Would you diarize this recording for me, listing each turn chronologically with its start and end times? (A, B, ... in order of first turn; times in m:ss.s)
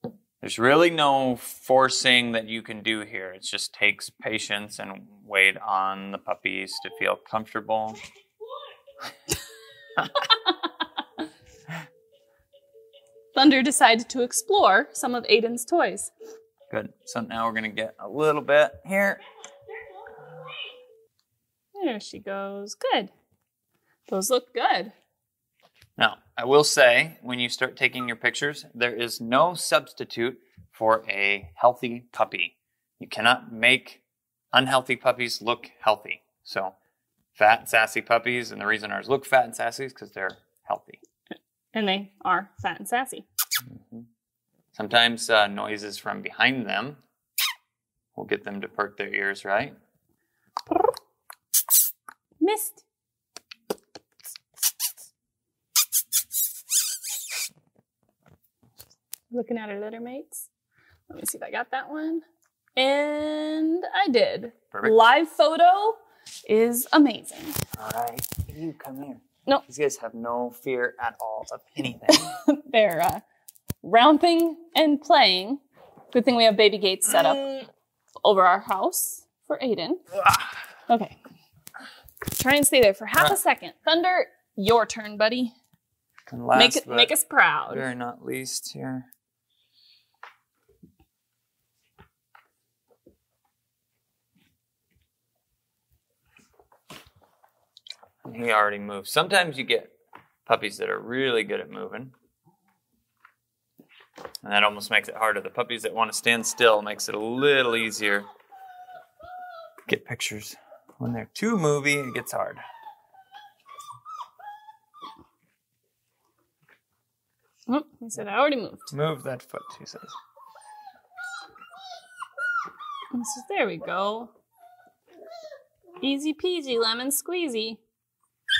0:00.4-0:08.0 A
0:13.3-0:16.1 B
0:16.7-0:19.2 A
0:21.7-0:23.1 B
0:24.1-0:24.9 B
0:26.0-0:34.0 A
0:34.5-0:36.7 A
0:37.4-0:41.0 A
0:41.7-0:43.2 B
0:43.7-0:44.0 A
0:44.7-0:47.0 A
0:48.1-0:49.7 A
0:52.4-0:52.8 B
0:59.3-1:00.4 B
1:01.1-1:02.2 B
1:02.8-1:07.5 B
1:04.7-1:05.0 A
1:07.8-1:12.3 A
1:12.1-1:13.2 B
1:13.8-1:15.6 B
1:16.1-1:17.6 B
1:18.2-1:20.0 B
1:20.9-1:21.2 B
1:22.3-1:25.5 B
1:26.3-1:27.1 A
1:26.5-1:27.9 B
1:27.7-1:29.1 A
1:38.2-1:39.9 A
1:40.4-1:42.1 A
1:44.4-1:48.3 A
1:49.9-1:52.6 A
1:57.7-1:58.9 B
1:58.9-2:00.2 A
2:03.1-2:04.3 B
2:06.0-2:07.8 B